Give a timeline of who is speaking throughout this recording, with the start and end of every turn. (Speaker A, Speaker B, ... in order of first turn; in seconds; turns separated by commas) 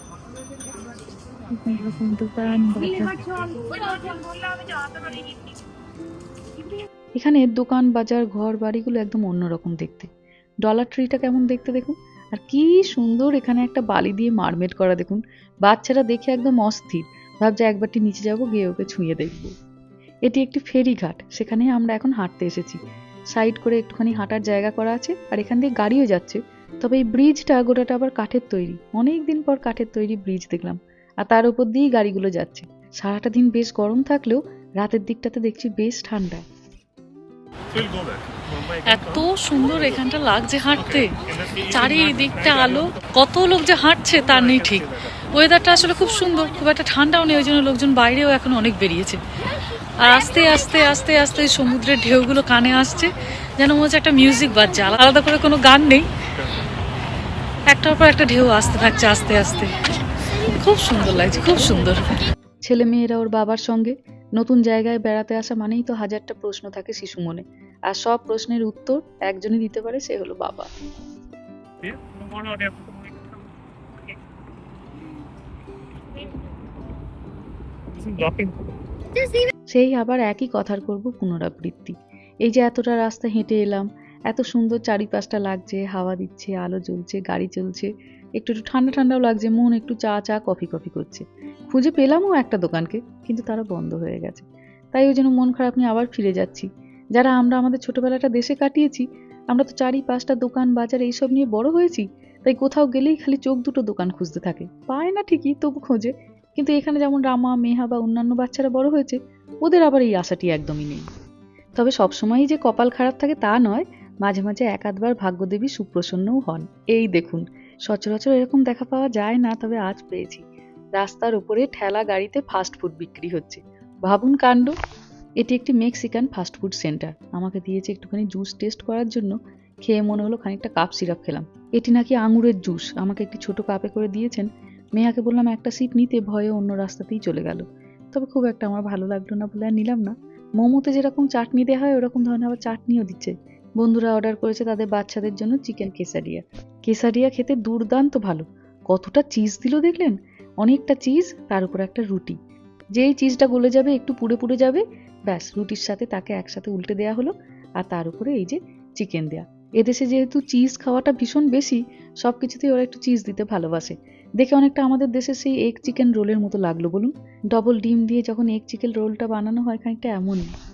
Speaker A: 1.7-3.9, Speaker B: 1.7-4.1, Speaker A: 7.2-10.1, Speaker A: 10.6-19.5, Speaker A: 20.2-22.8, Speaker A: 23.3-36.4, Speaker B: 38.8-49.2, Speaker B: 50.0-56.1, Speaker B: 57.7-62.2, Speaker A: 62.6-70.7, Speaker B: 72.4-72.9, Speaker A: 79.7-111.0, Speaker A: 111.8-120.4, Speaker A: 121.0-124.7, Speaker A: 125.4-152.4, Speaker A: 152.9-170.5